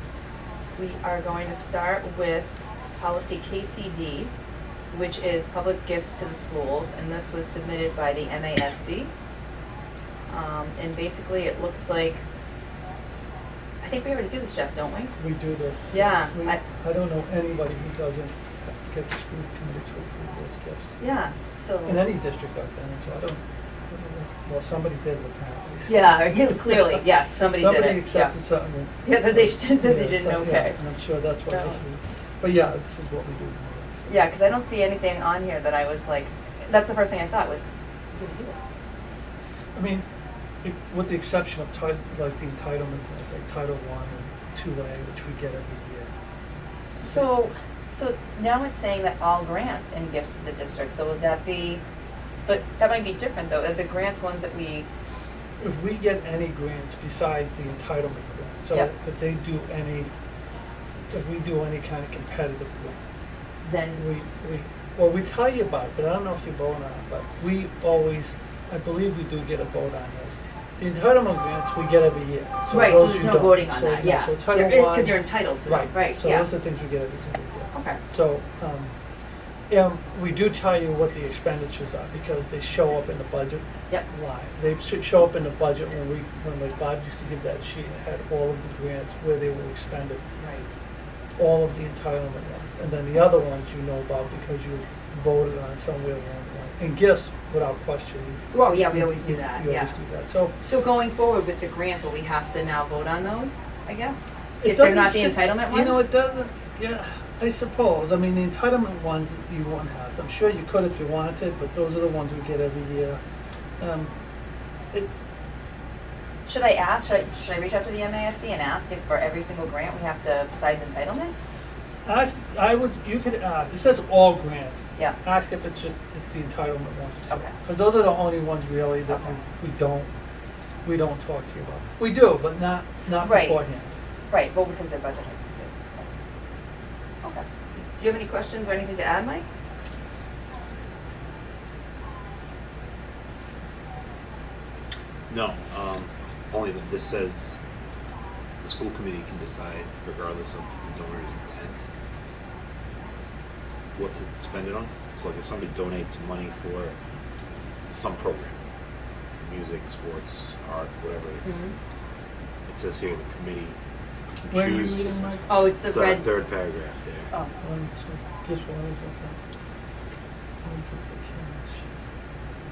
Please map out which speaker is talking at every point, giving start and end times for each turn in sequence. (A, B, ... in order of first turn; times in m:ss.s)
0:00.8-0:04.3 A
0:04.9-0:09.1 A
0:10.3-0:12.2 A
0:13.8-0:15.1 A
0:15.2-0:20.9 B
0:15.9-0:16.6 A
0:21.0-0:22.0 A
0:21.9-0:26.8 B
0:25.9-0:28.3 A
0:27.6-0:34.2 B
0:29.0-0:30.8 A
0:31.5-0:31.8 A
0:34.1-0:38.8 A
0:39.7-0:40.0 B
0:40.6-0:46.1 B
0:46.9-0:51.8 A
0:52.5-0:54.9 A
0:55.6-1:00.1 B
1:01.1-1:03.0 B
1:03.6-1:04.0 A
1:04.0-1:18.9 B
1:12.7-1:16.5 A
1:17.7-1:18.0 A
1:19.7-1:30.2 B
1:30.4-1:30.7 A
1:31.4-1:40.6 B
1:38.5-1:39.9 A
1:40.6-1:46.1 A
1:44.6-1:53.2 B
1:53.8-1:54.1 B
1:56.4-2:01.3 A
2:02.0-2:10.1 B
2:07.3-2:07.5 A
2:10.8-2:13.9 B
2:13.2-2:13.6 A
2:14.3-2:16.1 A
2:18.0-2:19.4 A
2:25.3-2:27.6 C
2:28.6-2:31.8 C
2:33.9-2:36.9 C
2:37.9-2:38.6 C
2:39.4-2:41.6 C
2:41.4-2:41.7 A
2:42.7-2:43.8 C
2:44.4-2:47.3 C
2:44.5-2:45.7 B
2:45.5-2:46.3 A
2:47.6-2:49.4 B
2:50.6-2:51.9 B